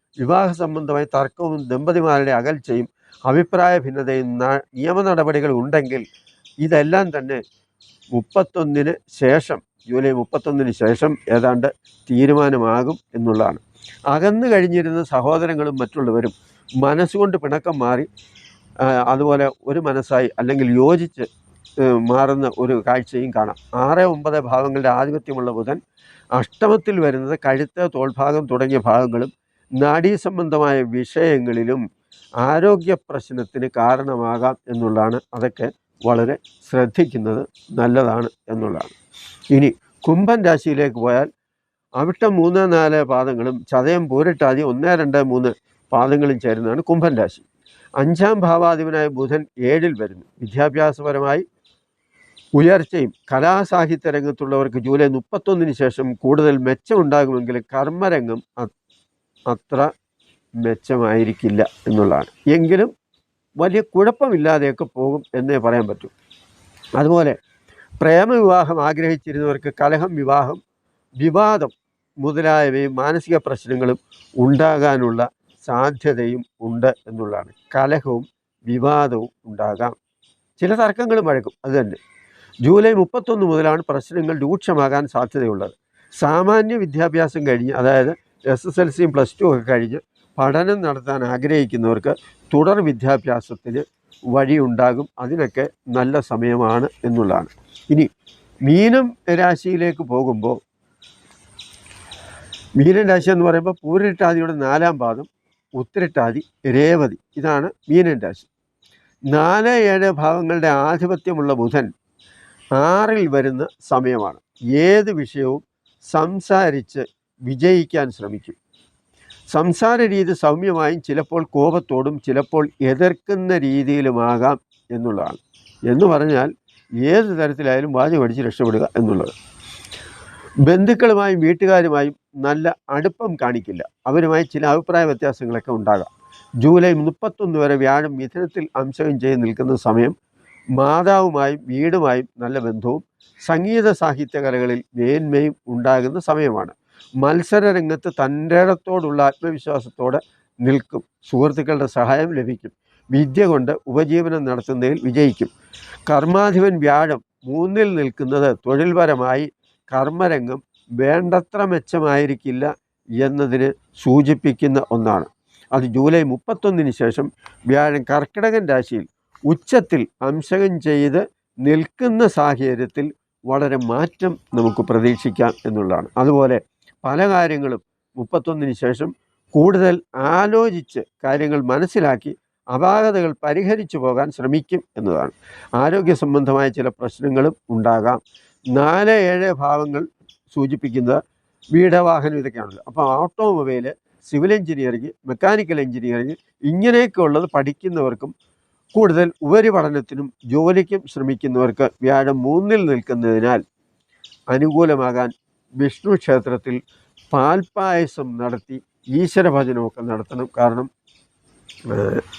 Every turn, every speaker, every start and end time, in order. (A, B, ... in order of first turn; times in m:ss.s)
0:00.2-0:06.0 A
0:06.6-0:07.4 A
0:08.1-0:18.1 A
0:18.9-0:21.3 A
0:21.8-0:25.8 A
0:26.3-0:31.8 A
0:32.4-0:38.9 A
0:39.5-0:41.3 A
0:42.0-0:47.4 A
0:48.0-0:51.4 A
0:52.6-0:58.7 A
0:59.5-0:59.9 A
1:00.6-1:02.9 A
1:03.6-1:06.1 A
1:07.0-1:07.4 A
1:08.0-1:10.6 A
1:11.2-1:19.9 A
1:20.6-1:22.0 A
1:22.6-1:38.1 A
1:38.6-1:40.6 A
1:42.8-1:48.5 A
1:49.3-1:51.9 A
1:52.8-1:58.6 A
1:59.5-2:09.3 A
2:10.6-2:16.1 A
2:16.6-2:20.1 A
2:20.8-2:35.5 A
2:36.1-3:08.2 A
3:08.7-3:11.2 A
3:11.7-3:18.3 A
3:18.9-3:23.6 A
3:24.5-3:26.8 A
3:27.3-3:30.9 A
3:31.9-3:32.2 A